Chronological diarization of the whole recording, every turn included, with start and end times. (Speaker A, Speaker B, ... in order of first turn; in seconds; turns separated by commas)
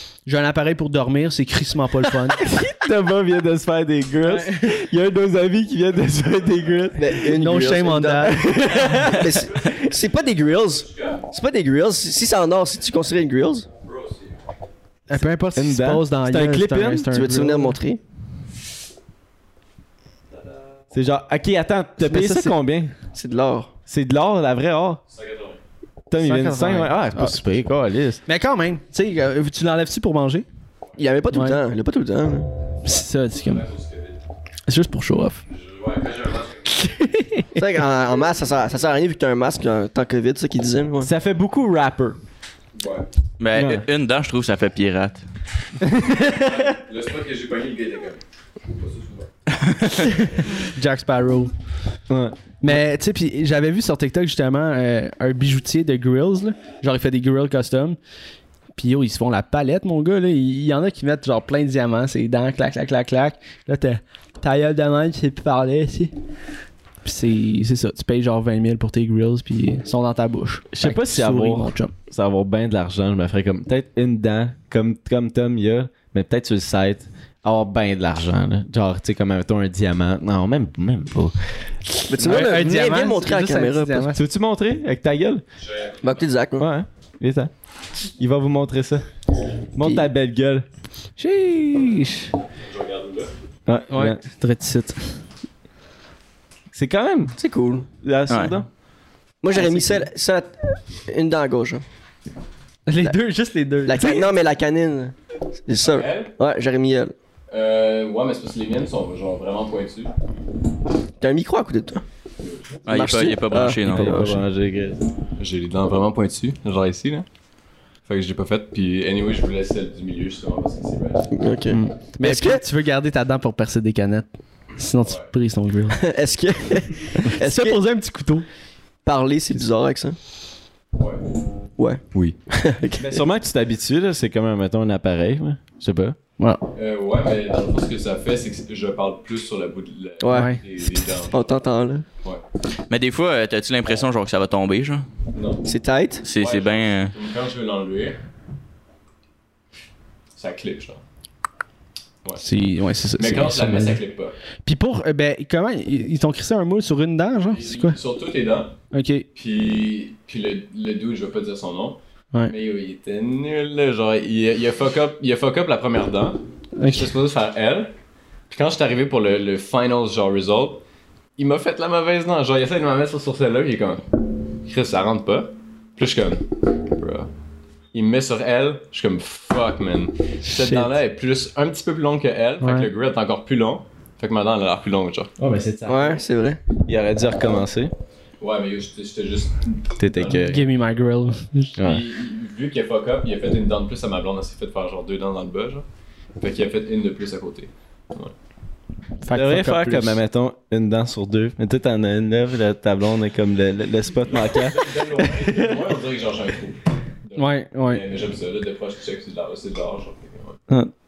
Speaker A: 0.2-2.4, Speaker B: 2.3-7.2, Speaker A: 4.2-4.7, Speaker C: 6.9-13.7, Speaker A: 7.2-9.2, Speaker B: 8.3-9.4, Speaker D: 10.9-11.2, Speaker D: 13.9-14.2, Speaker A: 15.1-17.8, Speaker B: 15.1-17.1, Speaker C: 17.1-18.0, Speaker B: 20.9-22.9, Speaker A: 22.0-22.6, Speaker C: 23.1-23.7, Speaker B: 23.9-25.0, Speaker D: 25.1-25.6, Speaker B: 26.1-28.2, Speaker A: 26.2-27.4, Speaker A: 28.2-30.4, Speaker C: 31.0-32.5, Speaker A: 31.3-31.6, Speaker A: 32.8-33.6, Speaker D: 33.5-34.1, Speaker A: 34.7-35.4, Speaker D: 35.5-36.8, Speaker A: 36.8-37.4, Speaker C: 37.5-41.1, Speaker B: 41.0-42.2, Speaker D: 42.8-43.0, Speaker E: 43.4-45.2, Speaker B: 43.5-43.8, Speaker D: 46.3-49.3, Speaker A: 50.0-51.5, Speaker B: 52.1-52.8, Speaker A: 52.6-58.0, Speaker A: 58.8-66.1, Speaker A: 67.0-71.9, Speaker B: 70.7-81.3, Speaker C: 82.1-84.1, Speaker A: 82.2-84.2, Speaker B: 82.2-82.5, Speaker B: 84.1-85.4, Speaker D: 85.7-86.2, Speaker C: 86.0-86.7, Speaker B: 86.6-87.5, Speaker B: 88.2-89.0, Speaker B: 89.7-90.7, Speaker A: 91.2-92.3, Speaker D: 92.7-93.3, Speaker B: 93.7-94.2, Speaker A: 93.9-95.2, Speaker B: 96.7-97.3, Speaker C: 97.4-97.9, Speaker B: 98.0-98.7, Speaker E: 98.3-98.5, Speaker C: 99.4-101.8, Speaker B: 99.5-100.0, Speaker A: 102.9-104.3, Speaker C: 103.8-105.1, Speaker C: 105.7-107.1, Speaker D: 105.8-106.3, Speaker D: 107.5-110.1, Speaker C: 111.2-112.0, Speaker D: 112.4-112.8, Speaker E: 112.8-114.3, Speaker C: 112.9-114.4, Speaker B: 113.8-115.0, Speaker D: 115.4-117.2, Speaker D: 118.0-121.3, Speaker C: 121.3-122.6, Speaker A: 121.7-126.0, Speaker C: 126.0-127.8, Speaker A: 127.2-128.4, Speaker C: 129.0-130.2, Speaker D: 130.9-131.2, Speaker C: 131.8-133.2, Speaker B: 133.0-136.2, Speaker A: 136.4-136.6, Speaker D: 136.7-141.5, Speaker C: 140.2-140.5, Speaker A: 140.3-140.6, Speaker C: 141.2-142.1, Speaker E: 142.9-145.0, Speaker D: 145.3-145.7, Speaker C: 145.6-146.2, Speaker E: 146.2-147.1, Speaker D: 146.3-148.2, Speaker D: 150.3-151.0, Speaker A: 152.4-154.0, Speaker D: 153.2-154.3, Speaker A: 154.6-158.0, Speaker D: 157.5-158.7, Speaker A: 158.9-159.2, Speaker D: 159.3-167.9, Speaker A: 166.8-167.1, Speaker D: 168.5-170.8, Speaker D: 171.4-174.0, Speaker D: 174.6-177.3, Speaker D: 177.9-185.5, Speaker A: 180.5-180.9, Speaker A: 182.6-182.9, Speaker B: 185.4-186.2, Speaker C: 185.8-186.6, Speaker B: 186.8-187.9, Speaker D: 188.4-190.6, Speaker B: 190.0-190.7, Speaker A: 190.3-191.8, Speaker B: 191.8-192.0, Speaker D: 191.8-195.8, Speaker D: 196.4-198.3, Speaker A: 199.2-200.2, Speaker B: 199.3-205.8, Speaker D: 204.4-210.6, Speaker A: 207.3-208.0